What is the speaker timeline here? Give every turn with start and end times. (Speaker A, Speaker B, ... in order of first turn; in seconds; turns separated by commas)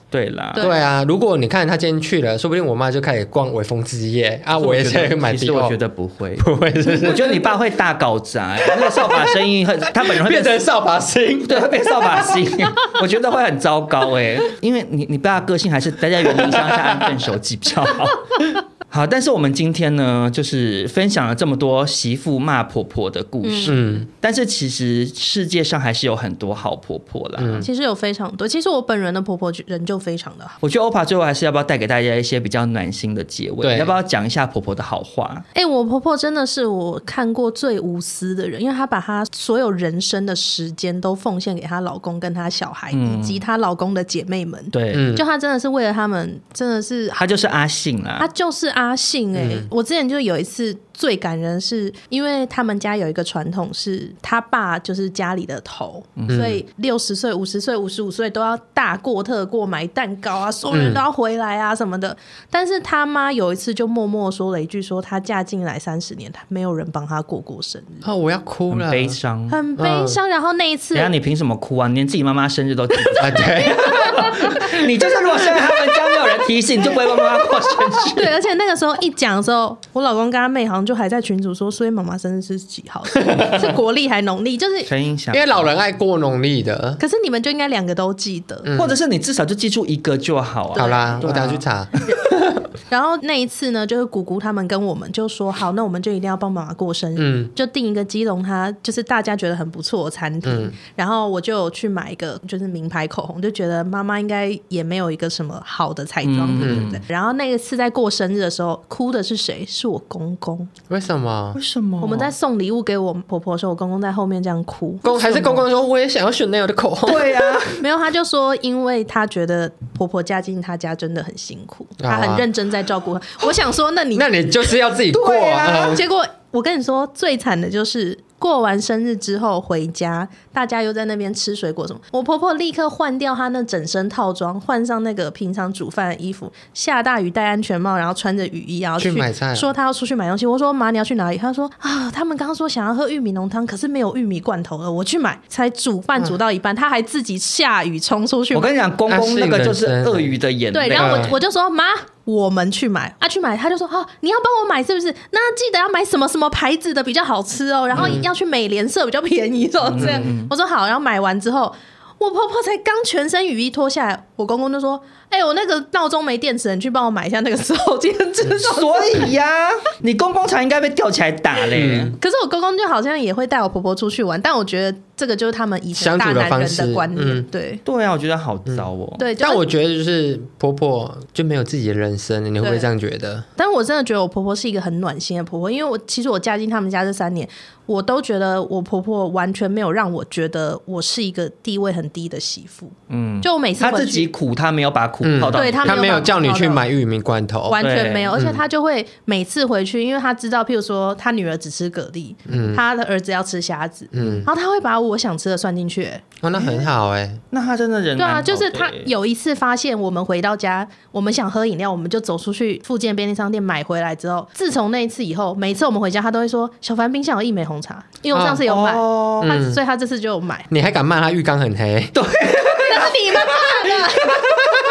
Speaker A: 0.1-0.7, Speaker B: 0.6-5.8, Speaker A: 4.5-10.6, Speaker B: 6.4-7.5, Speaker B: 8.6-9.3, Speaker B: 9.9-12.5, Speaker A: 11.5-27.7, Speaker B: 16.2-17.1, Speaker C: 23.4-23.8, Speaker B: 23.6-24.1, Speaker B: 27.4-27.7, Speaker C: 27.6-30.6, Speaker A: 30.6-35.4, Speaker B: 33.6-33.9, Speaker C: 35.5-47.2, Speaker A: 42.9-43.4, Speaker A: 44.7-45.1, Speaker B: 44.9-45.2, Speaker A: 47.2-48.3, Speaker C: 48.2-68.0, Speaker B: 49.3-49.7, Speaker A: 56.2-56.5, Speaker B: 56.3-56.6, Speaker B: 60.7-61.0, Speaker B: 68.0-69.2, Speaker A: 68.7-69.6, Speaker C: 69.5-71.1, Speaker B: 69.8-70.2, Speaker A: 70.9-78.3, Speaker B: 73.2-74.5, Speaker C: 73.7-74.7, Speaker C: 78.0-84.9, Speaker B: 83.3-83.7, Speaker A: 84.8-85.7, Speaker B: 85.3-87.0, Speaker C: 87.0-88.7, Speaker B: 88.6-89.0, Speaker A: 88.8-91.6, Speaker C: 90.7-91.3, Speaker B: 90.8-91.9, Speaker C: 92.9-110.7, Speaker B: 97.2-97.5, Speaker B: 100.4-100.7, Speaker A: 106.2-107.0, Speaker B: 106.6-106.8, Speaker B: 110.9-111.6, Speaker A: 111.5-112.3, Speaker C: 112.0-115.6, Speaker B: 115.0-117.3, Speaker A: 117.0-117.8, Speaker C: 117.7-124.3, Speaker B: 122.0-122.5, Speaker B: 124.1-126.0, Speaker A: 125.1-125.9, Speaker C: 125.2-148.7, Speaker B: 139.0-139.7, Speaker A: 148.5-151.3, Speaker B: 149.1-150.3, Speaker C: 150.7-169.3, Speaker B: 150.9-151.3, Speaker A: 157.9-158.2, Speaker B: 157.9-158.3, Speaker A: 159.9-160.5, Speaker B: 160.0-160.3, Speaker A: 168.6-172.2, Speaker B: 171.7-172.2, Speaker C: 172.2-177.8, Speaker B: 175.9-177.5, Speaker A: 177.8-179.2, Speaker C: 179.2-179.6, Speaker B: 179.4-183.4, Speaker C: 182.6-182.9, Speaker C: 183.6-194.3, Speaker A: 193.1-196.2, Speaker B: 195.2-197.8, Speaker C: 195.5-196.8, Speaker C: 197.7-206.2, Speaker A: 197.8-198.3, Speaker B: 198.3-198.6, Speaker B: 202.5-202.8, Speaker B: 204.1-204.5, Speaker B: 206.4-207.4, Speaker A: 207.5-209.1, Speaker C: 208.2-220.7, Speaker A: 218.3-219.5, Speaker B: 219.4-219.8, Speaker B: 220.7-222.1, Speaker A: 222.1-224.4, Speaker C: 222.7-224.5